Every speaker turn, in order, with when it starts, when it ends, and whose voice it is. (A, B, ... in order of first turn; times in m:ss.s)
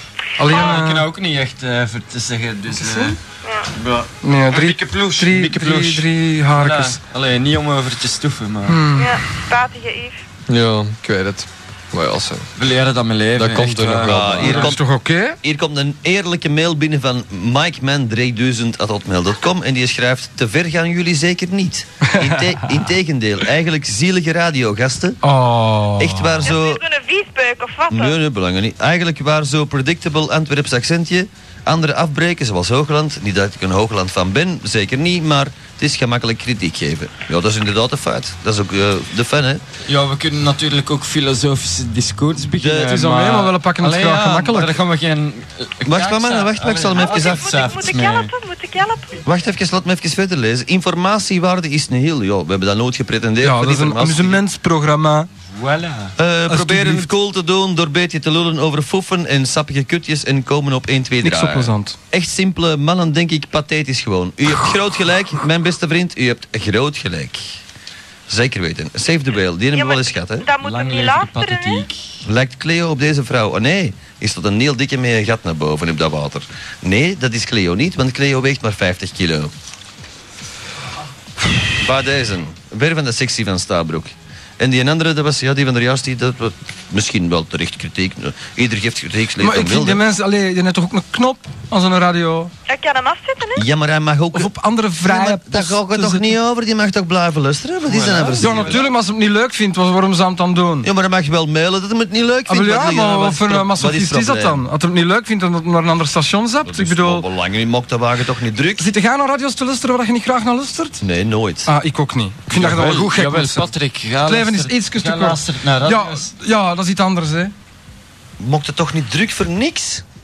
0:00.4-0:01.1 A
0:00.4-0:03.2 B
0:00.5-0:00.8 C
0:02.8-0:03.2 A
0:03.4-0:03.7 C
0:03.8-0:08.8 B
0:04.2-0:07.0 A
0:08.7-0:09.2 A
0:09.0-0:10.2 C
0:10.5-0:12.5 D
0:12.6-0:14.8 B
0:13.4-0:14.7 D
0:14.1-0:14.8 E
0:14.4-0:15.4 A
0:15.4-0:25.2 E
0:22.1-0:22.6 A
0:25.2-0:26.5 A
0:26.0-0:26.8 E
0:26.4-0:28.2 C
0:27.9-0:39.6 E
0:39.9-0:48.3 B
0:42.6-0:43.0 E
0:42.8-0:44.8 A
0:45.8-0:47.6 E
0:47.0-0:49.2 C
0:49.2-0:54.4 E
0:53.4-0:55.3 A
0:55.5-0:56.1 B
0:56.2-1:07.6 E
0:56.5-0:57.1 A
1:01.2-1:02.0 A
1:08.3-1:10.5 E
1:09.7-1:11.9 C
1:10.6-1:12.0 B
1:12.2-1:19.5 E
1:21.8-1:30.0 E
1:29.4-1:32.5 A
1:32.7-1:33.7 C
1:33.6-1:38.9 E
1:34.3-1:36.3 A
1:37.9-1:38.4 B
1:38.4-1:40.9 A
1:38.4-1:38.8 C
1:40.8-1:44.6 E
1:42.5-1:47.3 A
1:46.6-1:48.9 E
1:48.8-1:51.0 A
1:51.0-1:51.7 E
1:51.7-1:53.7 A
1:52.5-1:53.1 E
1:52.6-1:56.3 B
1:54.2-1:57.5 A
1:58.4-2:00.0 E